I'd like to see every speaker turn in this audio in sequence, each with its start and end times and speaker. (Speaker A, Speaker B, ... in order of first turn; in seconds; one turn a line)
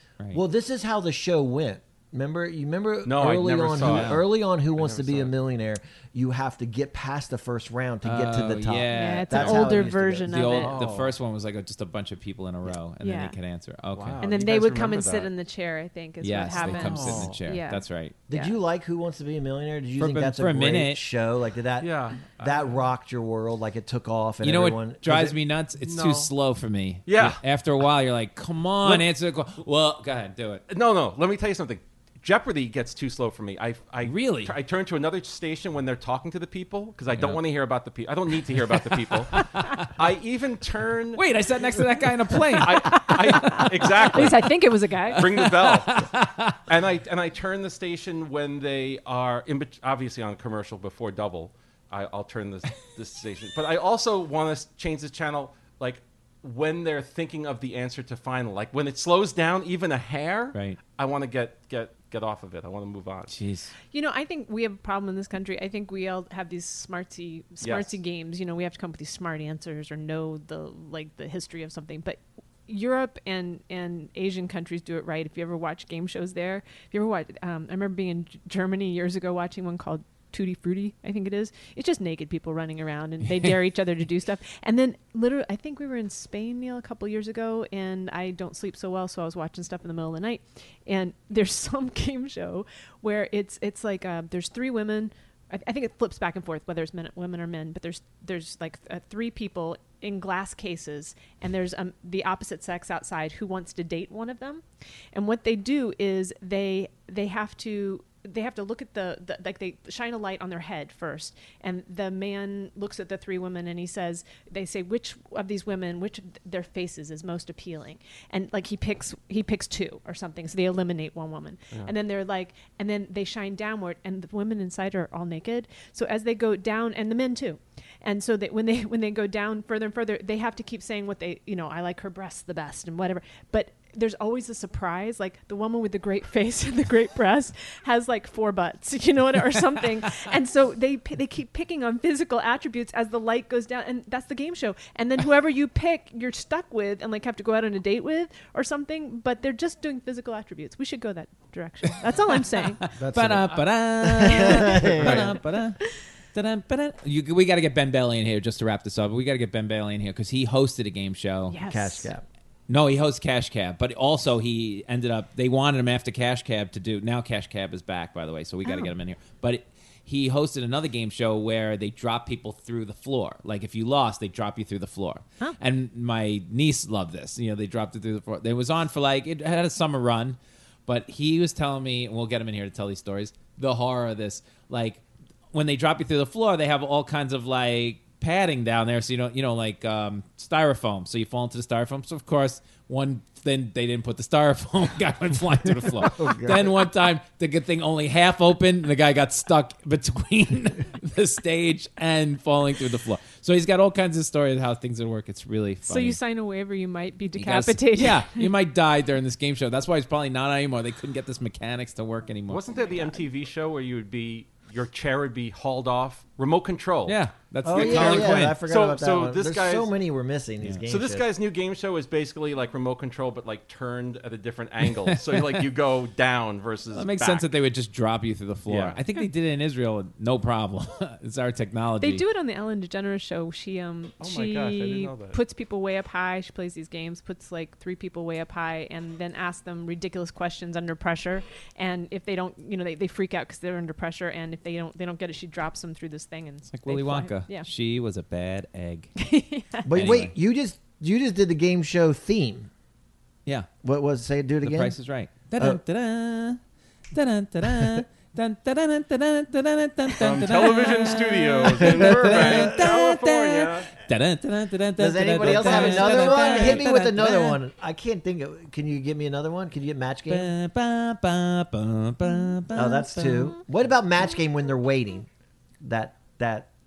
Speaker A: 0.3-10.3
Speaker B: 3.0-4.2
Speaker C: 3.8-4.2
Speaker B: 4.8-5.3
Speaker C: 8.0-14.2
Speaker D: 8.9-10.8
Speaker B: 10.5-11.2
Speaker D: 13.0-13.3
Speaker B: 13.9-15.3
Speaker D: 14.2-18.6
Speaker C: 16.2-18.2
Speaker B: 16.5-17.4
Speaker A: 18.3-25.4
Speaker C: 20.0-21.0
Speaker B: 21.8-22.8
Speaker C: 24.4-30.6
Speaker B: 25.8-26.3
Speaker B: 27.1-27.4
Speaker B: 30.7-39.4
Speaker C: 34.0-34.5
Speaker C: 37.1-37.4
Speaker C: 38.8-39.9
Speaker B: 40.0-41.3
Speaker C: 41.2-44.5
Speaker D: 42.6-45.2
Speaker B: 42.6-44.5
Speaker C: 45.1-46.6
Speaker B: 45.1-46.1
Speaker B: 46.7-63.4
Speaker C: 60.5-60.8
Speaker C: 63.3-63.7
Speaker D: 63.9-152.8
Speaker B: 67.6-68.0
Speaker C: 152.6-161.6
Speaker A: 153.0-155.4
Speaker D: 154.3-154.8
Speaker B: 155.0-155.3
Speaker D: 161.5-162.1
Speaker A: 161.6-162.2
Speaker C: 162.7-185.0
Speaker D: 168.7-168.9
Speaker C: 185.5-206.2
Speaker A: 195.8-196.8
Speaker D: 205.9-208.5
Speaker C: 207.4-212.6
Speaker B: 212.5-219.9
Speaker D: 212.9-213.2
Speaker C: 217.1-218.6
Speaker A: 217.6-221.3
Speaker B: 220.9-227.5
Speaker C: 226.9-232.2
Speaker B: 228.7-229.0
Speaker D: 232.0-247.7
Speaker B: 234.2-235.4
Speaker C: 246.7-249.1
Speaker D: 249.2-250.1
Speaker A: 249.9-252.7
Speaker C: 249.9-250.3
Speaker A: 253.8-255.0
Speaker C: 254.6-256.6
Speaker A: 255.6-255.8
Speaker C: 257.1-267.6
Speaker A: 257.6-258.0
Speaker B: 260.2-263.9
Speaker A: 261.8-263.0
Speaker A: 265.0-270.5
Speaker B: 265.4-266.9
Speaker C: 270.3-273.5
Speaker A: 272.7-275.3
Speaker A: 275.8-276.7